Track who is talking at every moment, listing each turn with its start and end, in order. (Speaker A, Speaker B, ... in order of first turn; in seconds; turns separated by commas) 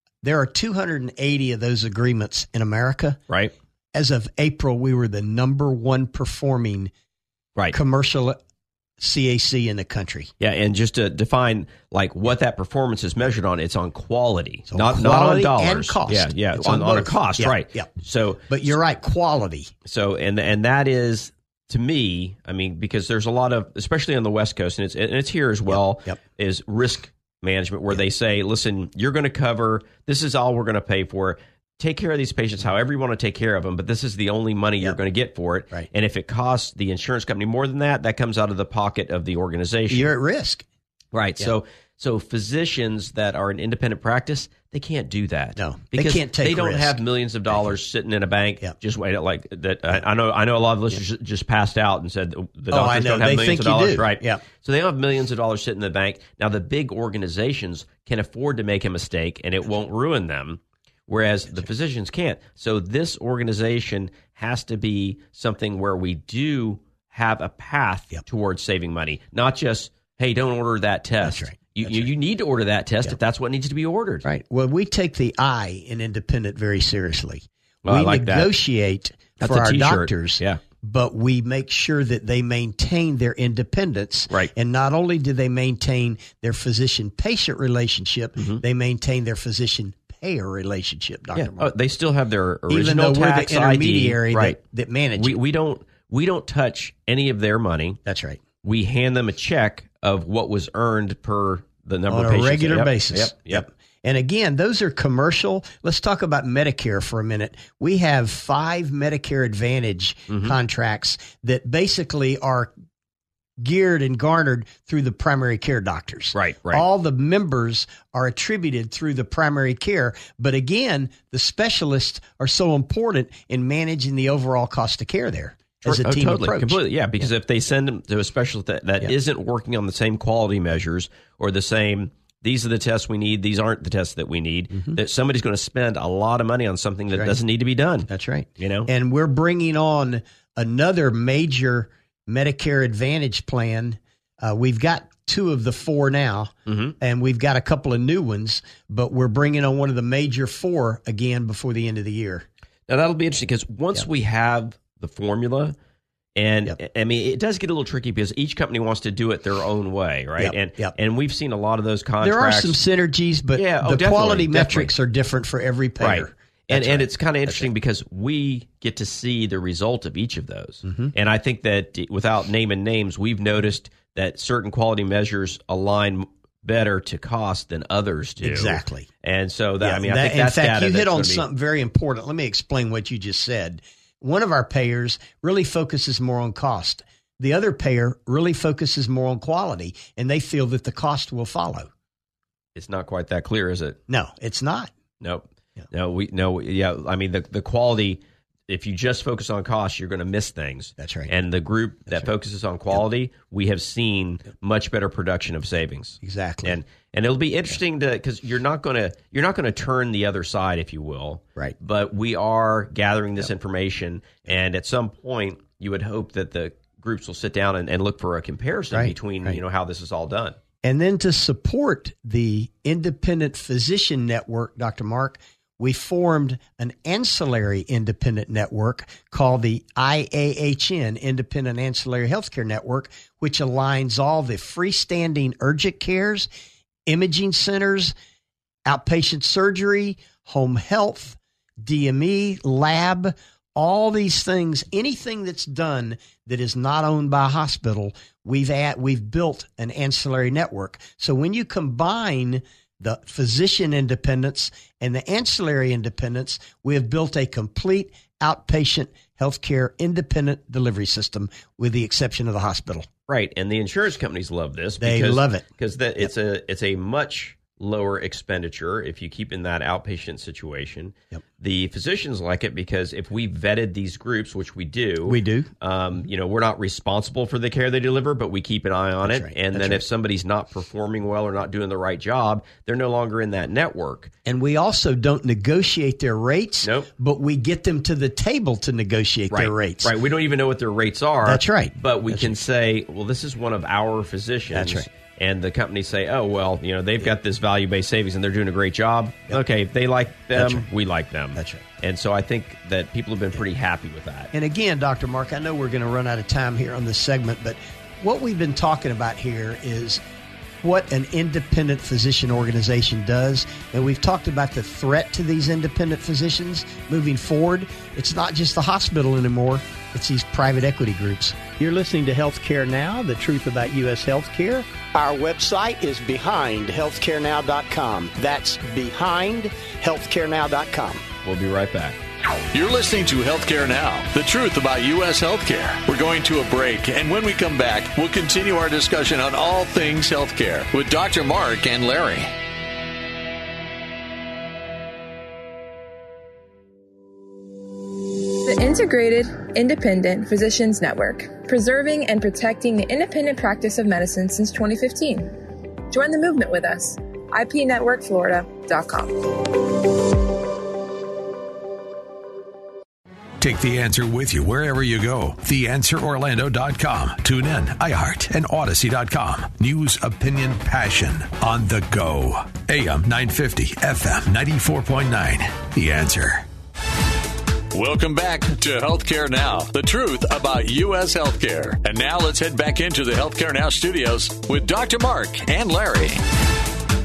Speaker A: 0.2-3.2, Speaker A: 3.9-6.9, Speaker A: 7.7-8.4, Speaker A: 9.0-10.3, Speaker B: 10.4-18.7, Speaker A: 14.7-17.9, Speaker A: 18.5-19.7, Speaker B: 19.9-40.1, Speaker A: 39.9-40.6, Speaker B: 41.1-74.3, Speaker A: 45.6-47.0, Speaker A: 52.7-54.4, Speaker A: 71.2-72.1, Speaker A: 74.2-91.7, Speaker B: 77.8-78.5, Speaker B: 79.4-80.6, Speaker B: 88.4-88.6, Speaker B: 91.3-94.6, Speaker A: 92.7-95.4, Speaker B: 95.2-98.0, Speaker A: 98.0-98.4, Speaker B: 98.6-103.7, Speaker A: 102.1-112.7, Speaker B: 110.3-110.6, Speaker A: 113.6-126.8, Speaker B: 116.3-116.8, Speaker B: 125.8-138.9, Speaker A: 138.1-152.5, Speaker B: 146.7-146.9, Speaker B: 152.9-155.8, Speaker B: 156.4-162.8, Speaker A: 160.4-160.9, Speaker A: 162.2-167.7, Speaker B: 163.6-164.9, Speaker B: 166.0-181.5, Speaker A: 170.8-171.1, Speaker A: 178.4-179.1, Speaker A: 179.8-191.9, Speaker B: 192.8-194.0, Speaker A: 194.1-194.9, Speaker B: 195.2-220.6, Speaker A: 201.0-201.3, Speaker A: 206.2-206.8, Speaker A: 218.9-219.6, Speaker A: 220.8-236.5, Speaker A: 237.1-238.1, Speaker A: 238.9-263.1, Speaker B: 263.3-284.3, Speaker A: 265.0-265.6, Speaker A: 275.3-275.7, Speaker A: 279.2-280.0, Speaker A: 284.4-290.1, Speaker B: 286.8-287.1, Speaker B: 289.5-304.5, Speaker A: 291.5-292.6, Speaker A: 294.7-295.1, Speaker A: 300.6-300.9, Speaker A: 301.6-301.8, Speaker A: 304.5-310.2, Speaker A: 310.8-331.2, Speaker B: 331.4-332.2, Speaker C: 332.7-342.5, Speaker D: 348.6-355.6, Speaker D: 356.1-359.8, Speaker E: 363.6-376.7, Speaker C: 377.9-386.4